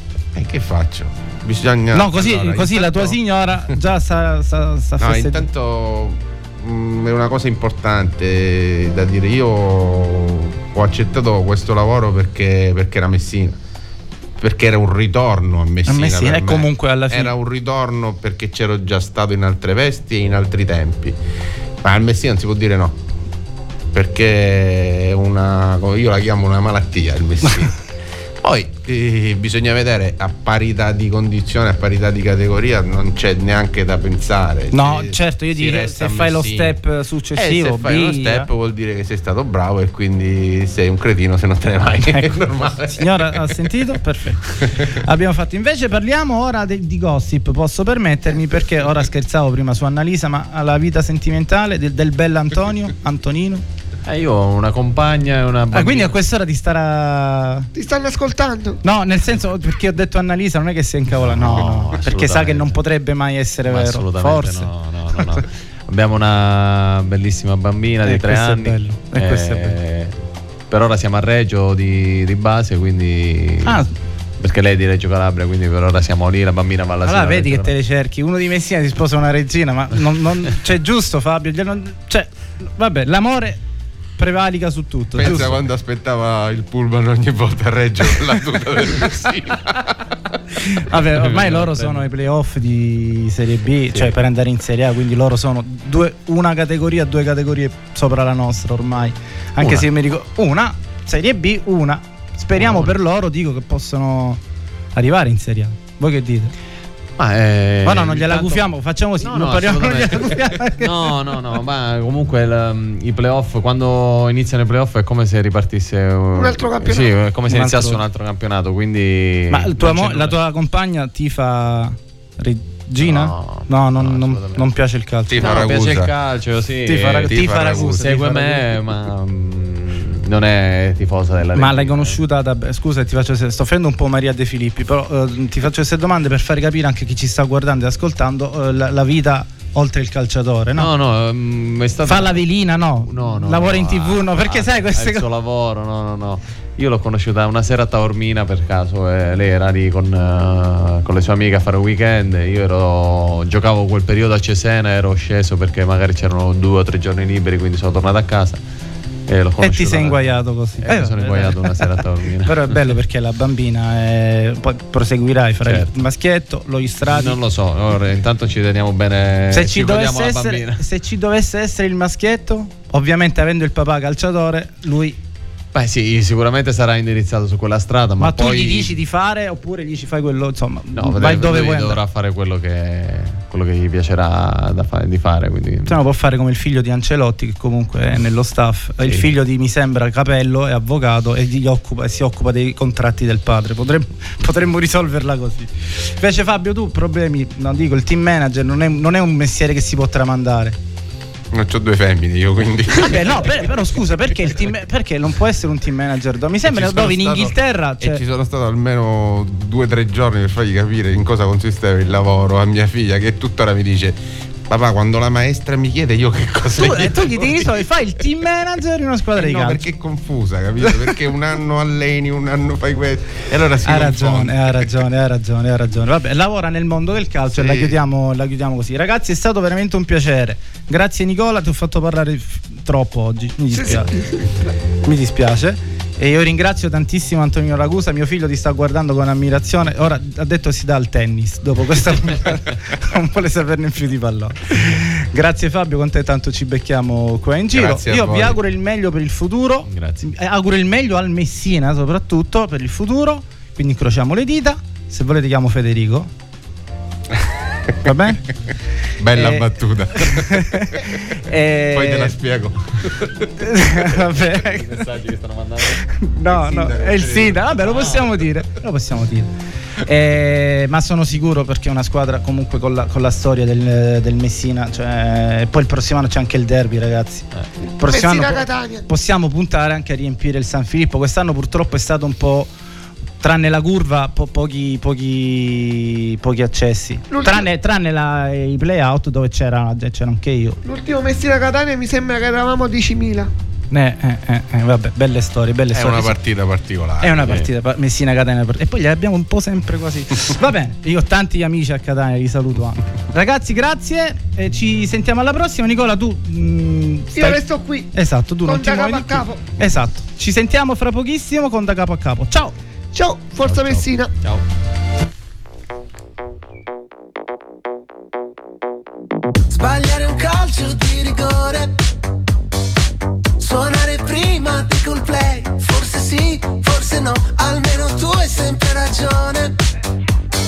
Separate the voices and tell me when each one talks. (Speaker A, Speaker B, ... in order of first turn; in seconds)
Speaker A: 0.3-3.8, 5.0-13.6, 14.4-21.2, 21.8-23.0, 23.9-27.8, 28.4-36.8, 37.3-43.7, 44.6-44.9, 85.2-90.1, 125.3-126.1, 127.3-128.1, 201.5-204.0, 206.6-217.8, 219.3-224.9, 227.5-228.0, 247.7-248.6, 257.4-258.1, 259.2-261.2, 261.8-263.5, 266.5-268.2, 295.9-297.7
Speaker B: 1.9-5.5, 15.9-17.3, 34.7-38.5, 42.1-53.6, 55.7-57.7, 58.8-65.4, 68.0-69.8, 73.7-73.9, 77.1-83.6, 84.2-85.6, 90.7-104.4, 105.0-106.5, 107.8-111.1, 117.5-118.0, 119.5-125.7, 126.8-128.8, 131.6-140.9, 142.1-145.3, 159.6-167.4, 169.5-175.2, 178.2-182.0, 185.9-200.8, 203.0-208.2, 216.8-219.9, 223.8-234.1, 235.0-256.3, 258.0-258.4, 259.3-262.4, 263.6-265.1, 266.1-269.5, 270.0-282.7, 283.4-290.8, 293.9-296.4, 297.2-307.6, 308.1-312.8
Speaker C: 54.0-56.1, 61.2-62.8, 63.7-70.2, 70.7-73.8, 74.4-77.7, 91.2-92.1, 99.6-99.9, 102.6-102.9, 107.2-108.7, 109.2-120.4, 123.0-124.6, 125.4-132.2, 140.8-142.5, 143.0-158.6, 159.3-162.9, 165.6-166.0, 167.0-170.8, 175.7-178.9, 181.0-186.0, 189.0-189.3, 249.9-250.3, 264.3-266.1, 267.8-268.3, 313.6-314.6
Speaker D: 57.8-58.8, 116.3-117.1, 233.7-234.5, 278.0-279.1, 287.3-287.7, 290.8-293.5, 307.4-309.6, 313.1-314.3
Speaker E: 319.7-322.0, 323.6-329.8